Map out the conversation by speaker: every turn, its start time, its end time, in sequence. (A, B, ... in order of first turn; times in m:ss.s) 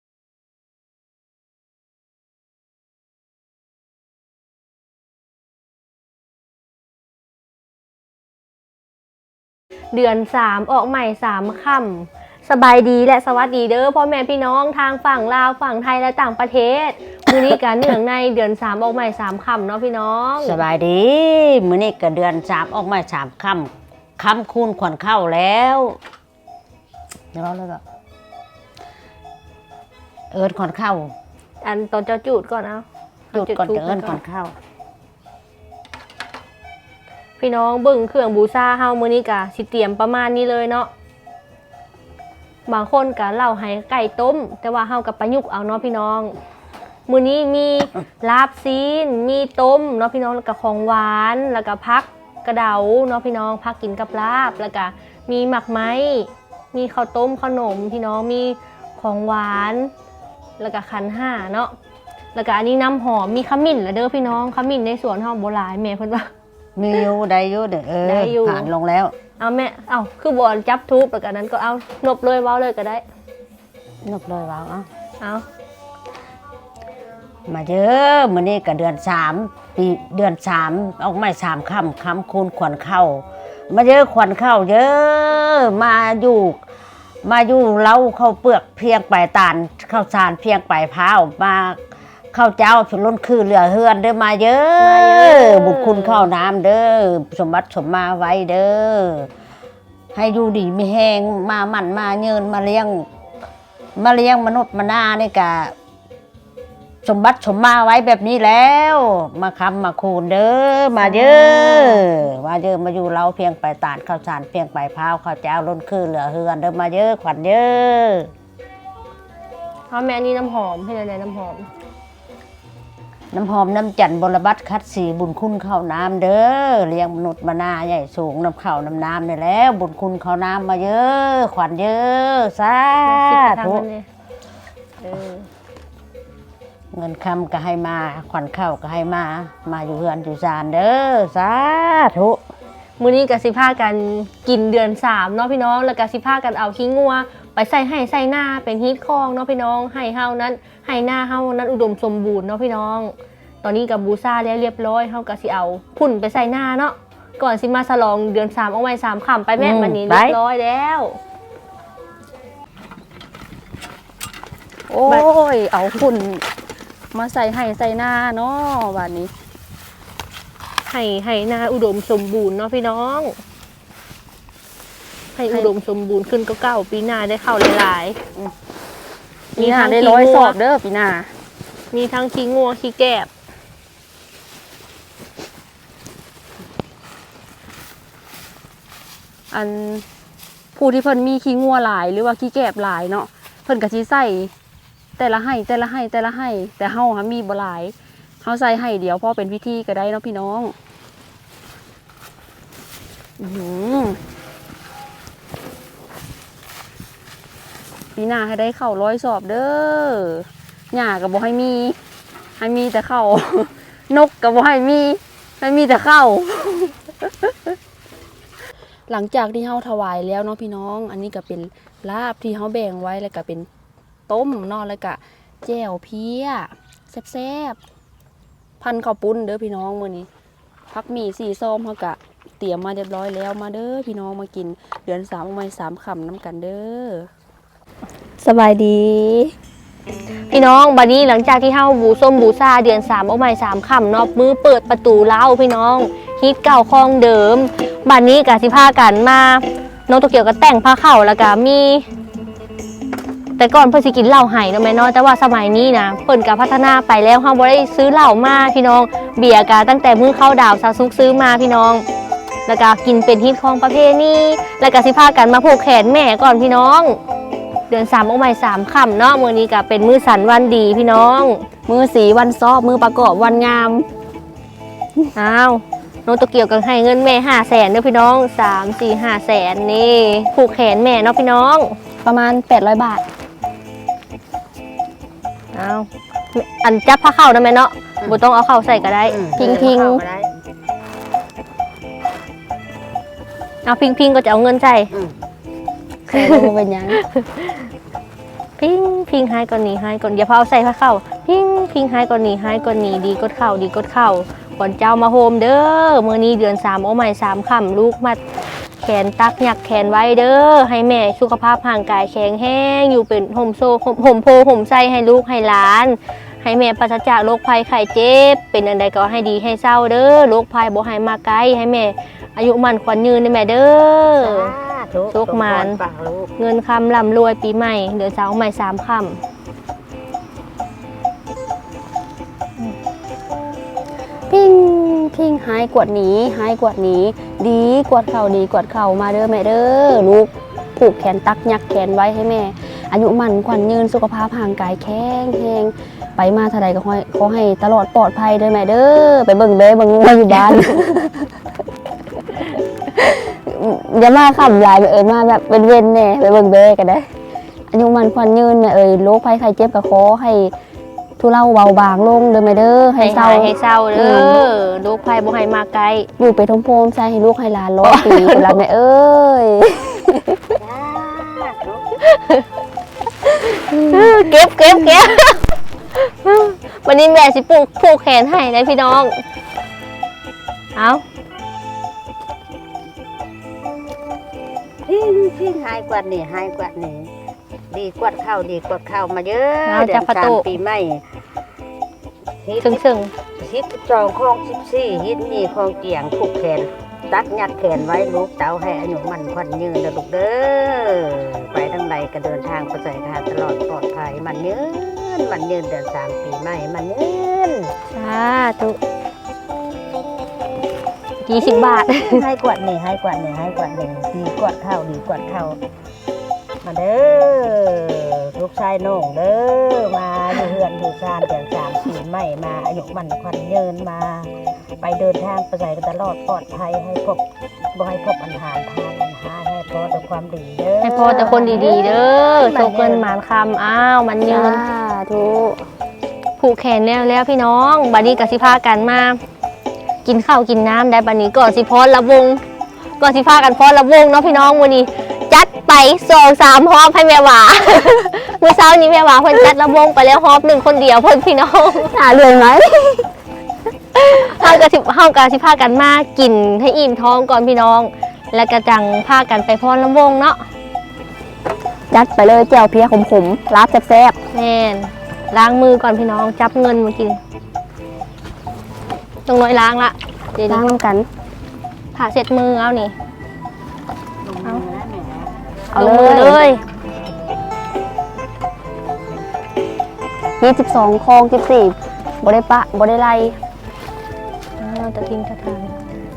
0:09.9-0:20.6 A
0:20.4-0:25.9 B
0:27.3-0:27.8 B
0:30.3-0:31.1 B
0:31.6-0:34.2 A
0:33.3-0:34.5 B
0:37.4-0:40.9 A
0:42.7-0:46.4 A
0:47.1-0:59.9 A
1:00.6-1:01.7 A
1:02.3-1:06.3 A
1:06.8-1:09.1 B
1:08.0-1:08.7 A
1:09.4-1:13.0 A
1:14.0-1:14.9 B
1:17.5-1:26.6 B
1:27.2-1:31.8 B
1:32.3-1:39.3 B
1:34.8-1:36.3 A
1:40.1-1:42.9 B
1:44.0-1:45.7 B
1:47.0-1:50.8 B
1:51.0-1:52.2 A
1:51.4-1:58.2 B
1:59.9-2:01.7 A
2:03.3-2:13.8 B
2:13.0-2:14.0 A
2:15.0-2:15.5 A
2:16.9-2:22.4 B
2:23.0-2:33.1 A
2:33.6-2:41.2 A
2:44.9-2:46.4 C
2:47.1-2:49.3 C
2:50.9-2:53.4 A
2:55.3-2:58.2 A
2:59.6-3:01.3 C
2:59.6-3:00.6 A
3:01.9-3:03.3 A
3:09.5-3:10.0 C
3:10.7-3:14.5 C
3:15.2-3:20.7 C
3:23.4-3:24.2 C
3:28.2-3:32.0 C
3:32.6-3:36.9 C
3:39.1-3:43.7 C
3:44.3-3:47.8 C
3:48.8-3:50.3 C
3:50.9-3:57.3 C
3:58.4-3:59.5 C
4:00.5-4:12.1 A
4:13.6-4:22.0 A
4:22.7-4:27.2 A
4:27.9-4:31.6 A
4:31.9-4:34.1 C
4:35.3-4:42.0 A
4:42.2-4:43.2 C
4:45.7-4:49.5 A
4:49.3-4:50.4 B
4:49.6-4:50.2 C
4:53.8-4:55.1 A
4:56.3-4:57.2 C
4:56.3-4:57.9 A
4:58.8-5:08.4 A
5:09.0-5:24.7 A
5:24.4-5:26.5 B
5:25.3-5:26.0 A
5:26.6-5:29.4 A
5:34.5-5:51.5 C
5:53.1-5:57.3 C
5:57.9-6:00.7 C
6:01.4-6:04.6 C
6:03.2-6:06.3 A
6:06.4-6:10.6 C
6:08.0-6:08.7 A
6:10.8-6:11.9 B
6:12.2-6:12.6 A
6:13.4-6:19.4 A
6:20.9-6:21.2 A
6:25.1-6:27.2 B
6:27.9-6:31.2 B
6:29.8-6:30.8 A
6:32.6-6:32.9 B
6:32.8-6:33.3 A
6:33.6-6:47.7 B
6:48.1-6:49.0 A
6:51.4-6:52.4 A
6:51.6-6:55.8 B
6:56.8-7:07.4 B
7:07.9-7:11.2 B
7:11.0-7:14.8 A
7:11.1-7:12.9 C
7:14.4-7:15.8 C
7:16.6-7:19.4 A
7:20.2-7:22.6 A
7:23.2-7:32.1 A
7:32.0-7:33.2 C
7:34.1-7:40.6 A
7:42.1-7:44.4 C
7:44.5-7:47.4 A
7:49.5-7:50.9 A
7:50.7-7:51.3 C
7:52.1-7:53.1 A
7:54.4-7:55.4 B
7:55.9-7:56.7 C
7:55.9-7:56.8 A
8:00.6-8:03.6 C
8:04.8-8:05.9 A